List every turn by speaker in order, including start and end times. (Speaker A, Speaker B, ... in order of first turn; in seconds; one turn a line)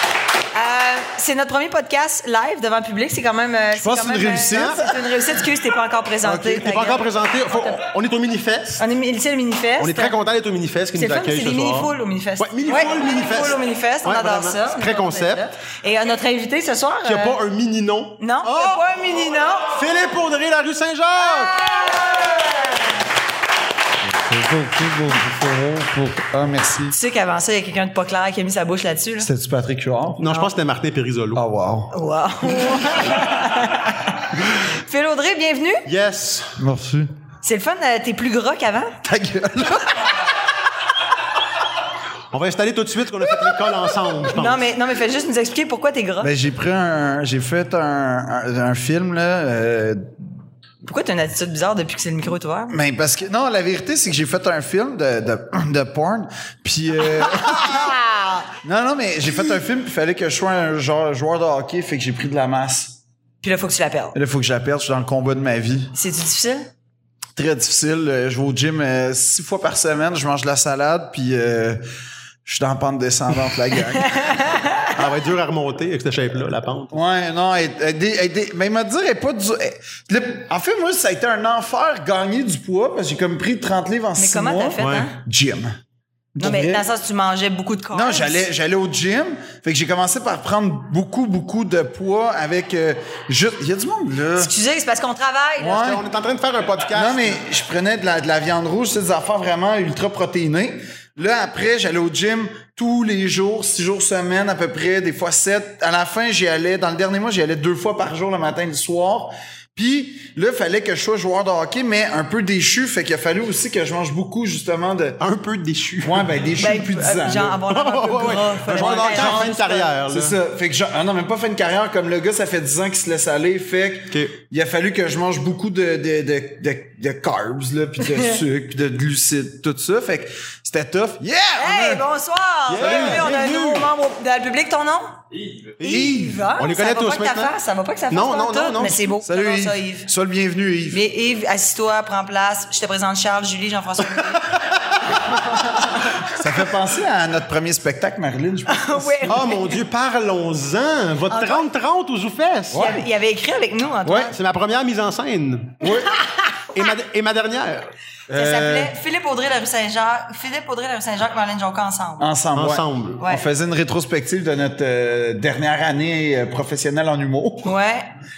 Speaker A: 0.5-7.8
Speaker B: 3.8-5.1
Speaker C: 4.5-4.8
Speaker C: 6.2-8.8
Speaker A: 8.8-10.2
Speaker C: 9.8-15.5
Speaker A: 10.9-17.4
Speaker C: 17.0-18.9
Speaker A: 18.2-19.7
Speaker C: 19.7-21.9
Speaker A: 21.2-22.9
Speaker B: 24.0-26.9
Speaker A: 26.9-29.3
Speaker B: 29.2-30.2
Speaker C: 30.2-31.4
Speaker A: 30.3-30.5
Speaker B: 31.3-31.9
Speaker A: 31.9-35.9
Speaker B: 32.5-32.8
Speaker C: 35.9-36.6
Speaker B: 36.6-37.1
Speaker A: 37.4-39.0
Speaker B: 39.0-40.2
Speaker C: 42.3-44.6
Speaker B: 43.4-44.1
Speaker A: 44.3-46.3
Speaker B: 46.2-50.2
Speaker A: 50.8-52.8
Speaker B: 52.7-58.0
Speaker A: 57.2-58.5
Speaker B: 58.6-63.0
Speaker A: 63.4-64.2
Speaker B: 64.1-65.9
Speaker A: 65.9-66.7
Speaker B: 67.3-71.8
Speaker B: 72.4-74.4
Speaker A: 73.9-74.9
Speaker C: 74.9-77.0
Speaker B: 76.9-85.8
Speaker A: 84.2-85.2
Speaker C: 84.8-85.1
Speaker B: 86.3-86.8
Speaker A: 86.4-88.4
Speaker B: 87.9-94.5
Speaker A: 94.4-95.8
Speaker B: 95.6-96.0
Speaker C: 95.7-97.4
Speaker B: 96.9-115.2
Speaker C: 115.2-116.3
Speaker B: 116.0-117.6
Speaker A: 116.6-119.9
Speaker C: 117.7-120.3
Speaker B: 118.7-132.0
Speaker A: 128.1-128.4
Speaker A: 131.6-135.2
Speaker C: 132.7-133.9
Speaker B: 132.7-133.3
Speaker C: 135.8-137.5
Speaker A: 135.8-140.1
Speaker B: 135.9-136.3
Speaker C: 138.1-139.2
Speaker B: 139.2-141.0
Speaker A: 140.9-146.3
Speaker B: 146.3-149.5
Speaker A: 148.7-149.8
Speaker C: 149.3-152.9
Speaker A: 151.3-151.7
Speaker B: 152.7-153.0
Speaker A: 152.7-154.3
Speaker B: 154.0-154.3
Speaker C: 154.3-155.9
Speaker B: 155.8-156.1
Speaker A: 156.0-156.7
Speaker C: 156.7-157.9
Speaker B: 158.3-158.9
Speaker A: 158.3-162.3
Speaker B: 162.2-167.8
Speaker C: 162.5-163.2
Speaker A: 167.6-168.1